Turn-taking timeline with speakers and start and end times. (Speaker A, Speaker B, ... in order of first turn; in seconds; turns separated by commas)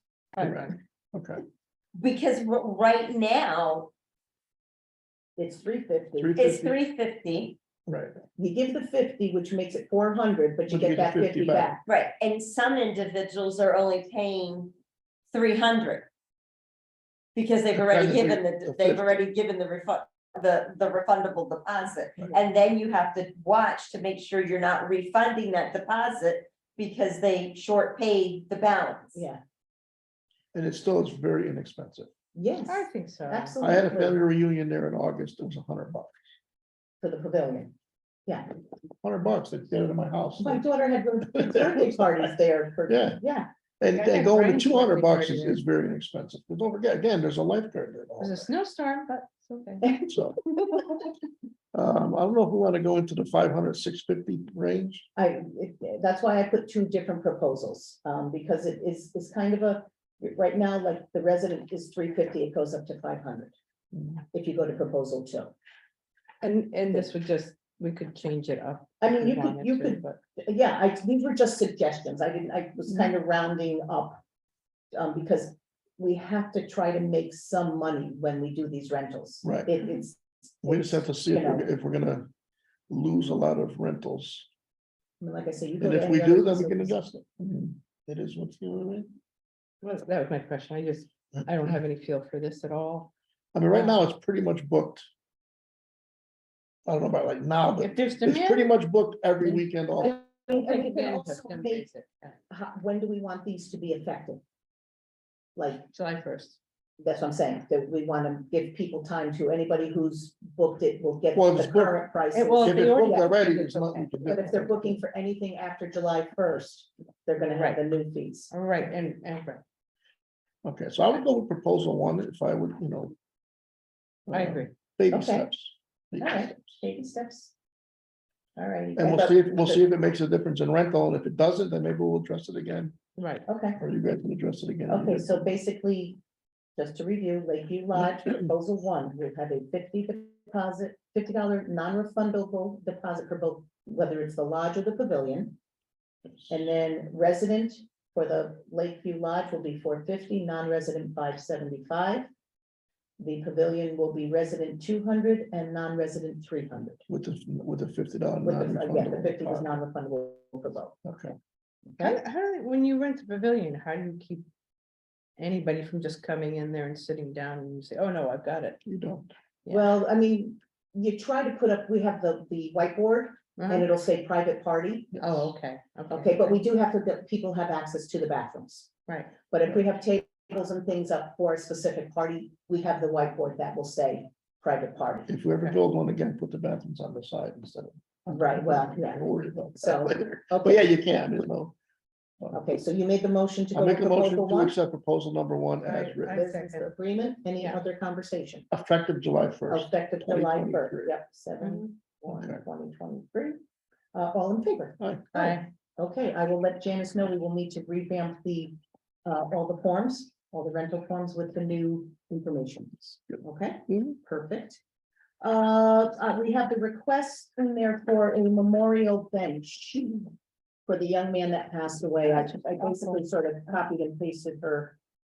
Speaker A: 0.3-0.8, Speaker B: 0.4-1.4, Speaker C: 2.0-3.9, Speaker D: 5.4-6.4, Speaker B: 6.2-6.8, Speaker C: 6.3-7.6, Speaker B: 7.9-8.2, Speaker D: 8.4-11.8, Speaker B: 10.7-11.8, Speaker C: 11.8-14.7, Speaker C: 15.3-16.1, Speaker C: 17.3-29.2, Speaker B: 17.7-19.2, Speaker D: 29.1-29.4, Speaker B: 30.5-32.1, Speaker D: 32.3-34.3, Speaker A: 32.7-33.5, Speaker B: 33.6-36.2, Speaker D: 37.0-37.7, Speaker B: 39.0-40.6, Speaker D: 40.4-43.5, Speaker B: 41.3-42.0, Speaker B: 42.9-43.2, Speaker B: 43.8-48.5, Speaker A: 43.9-45.6, Speaker A: 48.2-49.9, Speaker D: 49.8-51.0, Speaker B: 50.1-50.4, Speaker B: 51.7-55.0, Speaker D: 55.1-63.5, Speaker B: 63.9-64.2, Speaker D: 64.3-65.5, Speaker A: 66.4-70.2, Speaker D: 69.0-74.2, Speaker D: 74.9-81.6, Speaker B: 79.4-79.8, Speaker B: 80.6-82.3, Speaker B: 82.9-84.5, Speaker D: 85.2-87.0, Speaker B: 85.8-89.1, Speaker A: 89.8-93.1, Speaker B: 93.5-95.0, Speaker A: 93.7-94.0, Speaker B: 96.8-100.1, Speaker A: 97.8-98.7, Speaker D: 100.0-101.8, Speaker A: 100.5-102.4, Speaker D: 102.5-104.4, Speaker D: 105.5-105.9, Speaker A: 105.9-106.6, Speaker D: 107.0-113.3, Speaker B: 111.3-112.1, Speaker A: 112.3-114.5, Speaker B: 112.6-115.0, Speaker D: 114.2-118.5, Speaker A: 117.5-117.8, Speaker A: 118.5-119.6, Speaker B: 120.6-123.2, Speaker B: 124.3-126.6, Speaker A: 124.3-124.7, Speaker D: 125.1-125.5, Speaker D: 126.2-127.5, Speaker D: 128.6-129.9, Speaker B: 129.0-133.0, Speaker A: 133.2-133.4, Speaker D: 133.4-133.8, Speaker B: 133.8-135.4, Speaker D: 134.9-136.2, Speaker D: 136.8-145.6, Speaker D: 146.5-152.3, Speaker D: 153.2-157.0, Speaker B: 157.1-159.7, Speaker D: 158.4-161.0, Speaker B: 161.0-161.3, Speaker D: 161.9-162.2, Speaker A: 162.0-164.5, Speaker A: 165.4-168.8, Speaker B: 168.8-169.3, Speaker D: 169.7-175.2, Speaker A: 173.6-173.9, Speaker A: 175.2-176.6, Speaker D: 176.1-178.9, Speaker A: 179.1-179.3, Speaker D: 179.5-185.3, Speaker B: 185.3-191.8, Speaker D: 188.3-190.9, Speaker D: 192.5-194.8, Speaker B: 193.7-196.4, Speaker A: 195.8-196.9, Speaker D: 196.3-198.7, Speaker B: 198.7-201.0, Speaker D: 199.7-203.6, Speaker A: 201.6-201.8, Speaker B: 202.3-202.6, Speaker D: 204.1-214.8, Speaker B: 205.0-205.3, Speaker A: 205.3-205.6, Speaker B: 213.3-214.2, Speaker D: 215.4-220.3, Speaker D: 220.9-225.0, Speaker A: 222.3-223.2